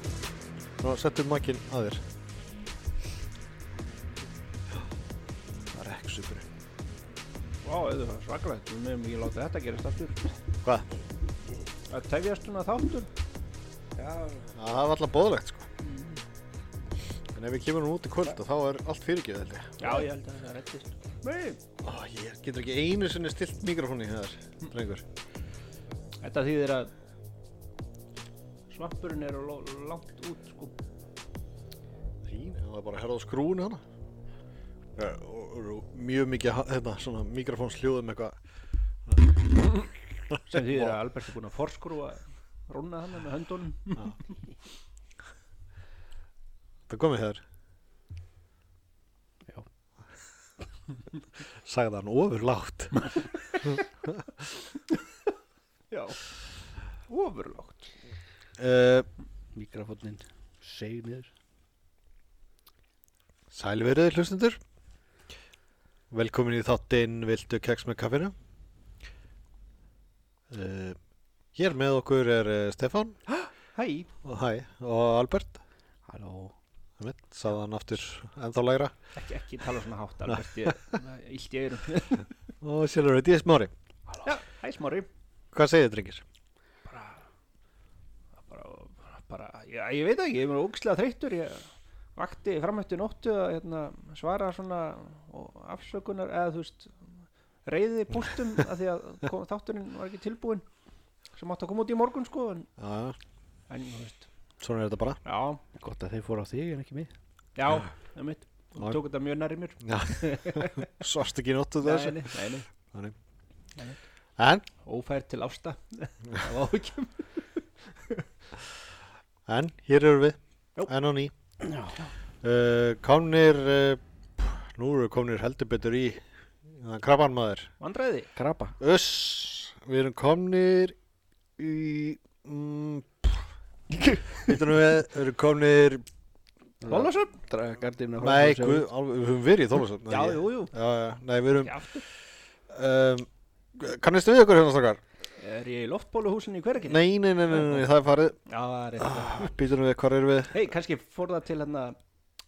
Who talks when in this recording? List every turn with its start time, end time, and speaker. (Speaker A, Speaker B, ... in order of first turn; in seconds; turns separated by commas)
Speaker A: 0.8-2.0, Speaker A: 5.7-6.5, Speaker B: 7.6-10.4, Speaker B: 11.9-13.1, Speaker A: 14.5-15.7, Speaker B: 15.8-16.2, Speaker A: 17.3-19.9, Speaker B: 19.8-21.6, Speaker A: 21.8-25.0, Speaker B: 26.2-26.9, Speaker B: 28.7-30.8, Speaker A: 32.3-33.8, Speaker A: 35.0-38.4, Speaker A: 39.1-39.4, Speaker A: 40.3-41.0, Speaker B: 40.5-44.4, Speaker A: 46.9-47.4, Speaker A: 51.6-53.1, Speaker B: 55.9-56.3, Speaker B: 57.1-58.0, Speaker A: 58.6-59.1, Speaker C: 59.5-61.3, Speaker A: 63.5-64.6, Speaker A: 66.1-68.3, Speaker A: 70.5-71.0, Speaker A: 71.5-73.2, Speaker B: 73.3-74.1, Speaker A: 74.2-75.6, Speaker C: 76.1-76.5, Speaker A: 77.0-78.9, Speaker B: 79.2-82.3, Speaker A: 82.6-83.7, Speaker B: 84.2-85.1, Speaker A: 85.5-86.2, Speaker B: 86.9-87.2, Speaker B: 88.4-100.6, Speaker B: 101.4-102.7, Speaker A: 102.8-103.2, Speaker B: 103.7-104.3, Speaker A: 104.6-105.2, Speaker B: 105.2-105.6, Speaker C: 105.8-107.1, Speaker B: 107.6-110.9, Speaker A: 109.8-113.2, Speaker B: 111.8-112.7, Speaker A: 114.4-114.7, Speaker B: 114.8-118.2, Speaker A: 119.5-121.3, Speaker C: 121.6-122.0, Speaker A: 122.4-127.7, Speaker B: 127.8-128.3, Speaker C: 128.4-128.8, Speaker A: 128.8-131.0, Speaker A: 131.6-133.4, Speaker A: 134.4-136.0, Speaker C: 136.8-138.9, Speaker B: 136.9-137.3, Speaker A: 138.2-141.7, Speaker B: 140.1-140.7, Speaker B: 141.6-142.1, Speaker A: 142.7-145.0, Speaker B: 145.4-147.9, Speaker A: 146.8-148.4, Speaker B: 148.5-149.5, Speaker A: 149.0-150.6, Speaker B: 150.5-152.0